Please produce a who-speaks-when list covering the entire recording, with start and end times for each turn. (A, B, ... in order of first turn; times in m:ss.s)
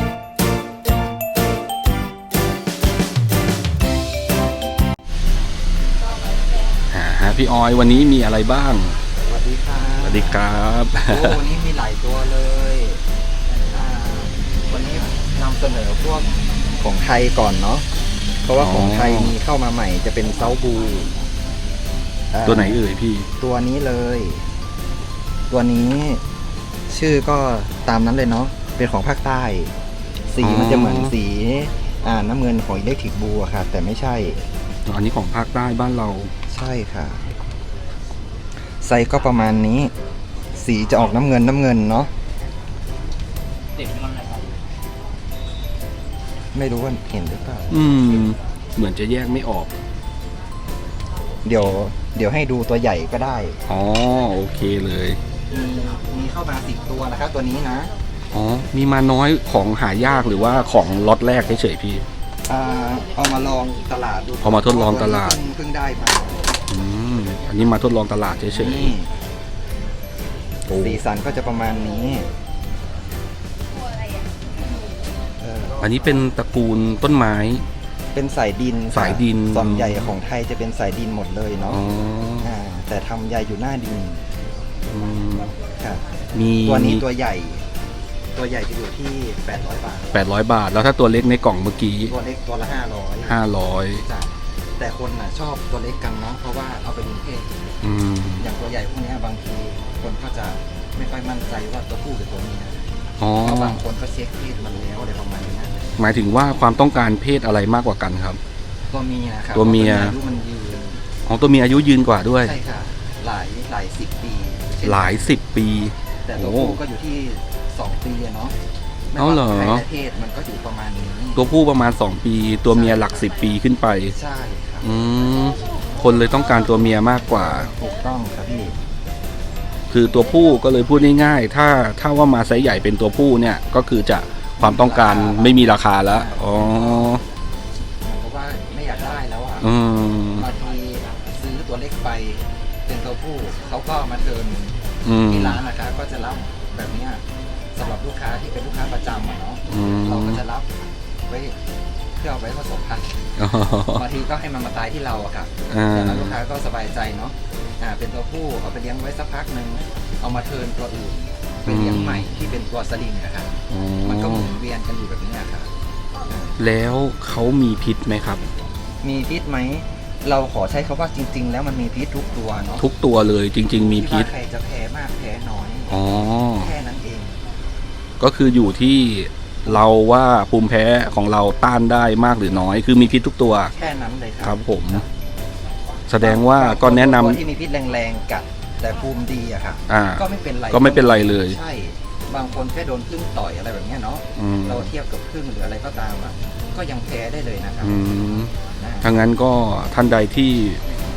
0:06.9-0:09.0 A
0:09.3-0:10.4 B
0:10.0-0:11.4 A
0:11.1-0:13.0 B
0:13.7-0:16.3 B
0:16.8-0:17.8 B
0:18.4-0:21.1 B
0:18.6-0:19.3 A
0:22.3-0:22.8 B
0:22.4-0:23.3 A
0:23.4-0:24.4 B
0:25.5-0:26.2 B
0:26.9-0:29.7 B
0:30.3-0:34.4 B
0:30.4-0:31.1 A
0:34.9-0:36.3 A
0:36.5-0:37.2 B
0:38.8-0:39.9 B
0:40.6-0:42.1 B
0:46.5-0:47.8 B
0:47.7-0:49.7 A
0:51.4-0:53.6 B
0:53.7-0:55.2 A
0:55.5-0:57.9 B
0:58.3-1:02.0 A
1:02.5-1:06.4 B
1:04.4-1:05.4 A
1:06.7-1:08.9 A
1:08.5-1:09.1 B
1:10.7-1:11.0 A
1:10.7-1:12.3 B
1:15.4-1:15.8 B
1:15.8-1:17.6 A
1:18.1-1:21.8 B
1:18.9-1:20.1 A
1:21.7-1:22.5 A
1:22.4-1:24.2 B
1:24.9-1:25.5 A
1:25.8-1:26.1 B
1:26.3-1:27.0 A
1:26.6-1:27.6 B
1:28.3-1:30.2 B
1:30.1-1:32.1 A
1:32.1-1:33.4 B
1:33.2-1:34.0 A
1:34.0-1:37.6 B
1:37.8-1:38.5 A
1:38.4-1:42.8 B
1:43.2-1:43.8 A
1:43.4-1:45.8 B
1:46.0-1:48.4 A
1:48.9-1:51.0 B
1:49.5-1:50.1 A
1:51.2-1:52.5 A
1:52.4-1:55.2 B
1:54.8-1:56.8 A
1:56.2-1:58.5 B
1:59.1-2:01.4 B
1:59.2-1:59.8 A
2:01.4-2:04.1 A
2:02.7-2:03.2 B
2:04.1-2:04.9 B
2:04.8-2:07.7 A
2:07.3-2:08.7 B
2:09.9-2:17.2 A
2:14.6-2:17.1 B
2:18.0-2:19.7 B
2:19.6-2:20.5 A
2:20.3-2:27.2 B
2:25.0-2:25.6 A
2:27.8-2:30.7 B
2:29.7-2:30.4 A
2:31.3-2:31.5 B
2:32.2-2:33.1 B
2:33.4-2:34.0 A
2:33.9-2:45.7 B
2:35.7-2:36.4 A
2:41.7-2:42.4 A
2:43.7-2:44.6 A
2:46.3-2:46.6 B
2:46.6-2:48.4 A
2:49.0-2:52.8 B
2:52.8-2:54.3 A
2:53.7-2:57.4 B
2:55.9-2:56.7 A
2:58.2-3:03.7 A
3:03.7-3:05.0 B
3:04.4-3:05.0 A
3:06.1-3:07.4 A
3:06.2-3:17.9 B
3:09.9-3:11.6 A
3:14.4-3:14.9 A
3:17.8-3:18.5 A
3:18.8-3:19.1 B
3:19.0-3:20.8 A